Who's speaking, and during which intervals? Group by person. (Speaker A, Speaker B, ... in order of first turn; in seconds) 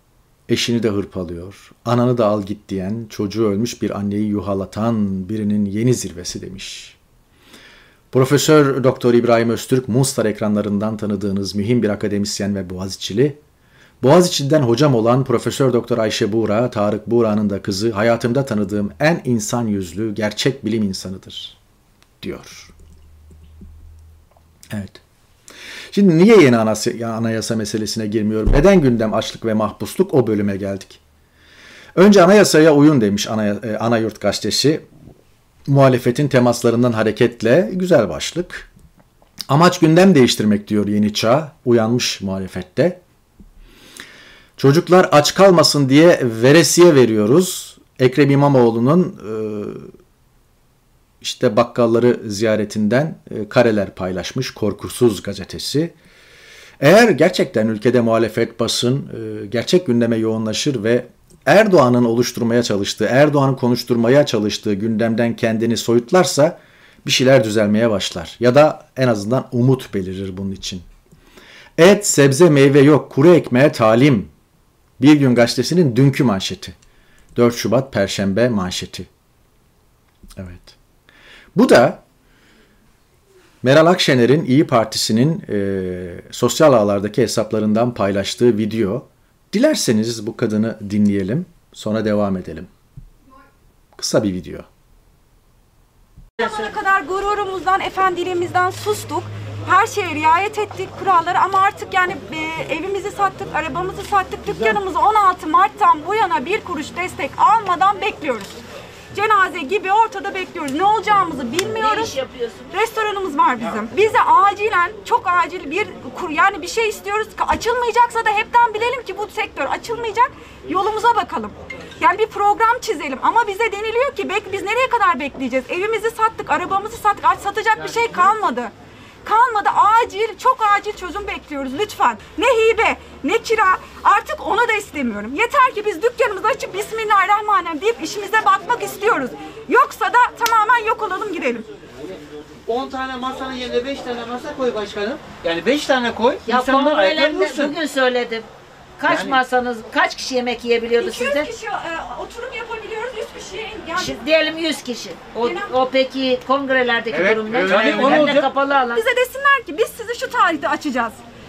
Speaker A: 0.5-7.0, 8.1-13.4, 14.0-21.6, 22.2-22.7, 24.7-25.0, 25.9-31.0, 31.9-34.9, 35.7-38.7, 39.5-43.0, 44.6-49.9, 51.2-55.9, 56.8-70.8, 71.8-74.3, 75.0-76.7, 77.3-79.1, 80.4-80.8, 81.5-82.0, 83.6-92.7, 94.0-94.7
Speaker B: 96.4-108.6, 109.1-112.2, 112.7-128.7, 129.2-141.7, 151.0-154.2, 155.4-155.7, 158.9-161.2
Speaker C: 111.6-112.7, 146.4-148.4, 149.0-151.5, 153.9-159.0
Speaker D: 142.7-147.7, 149.1-149.4, 157.1-158.5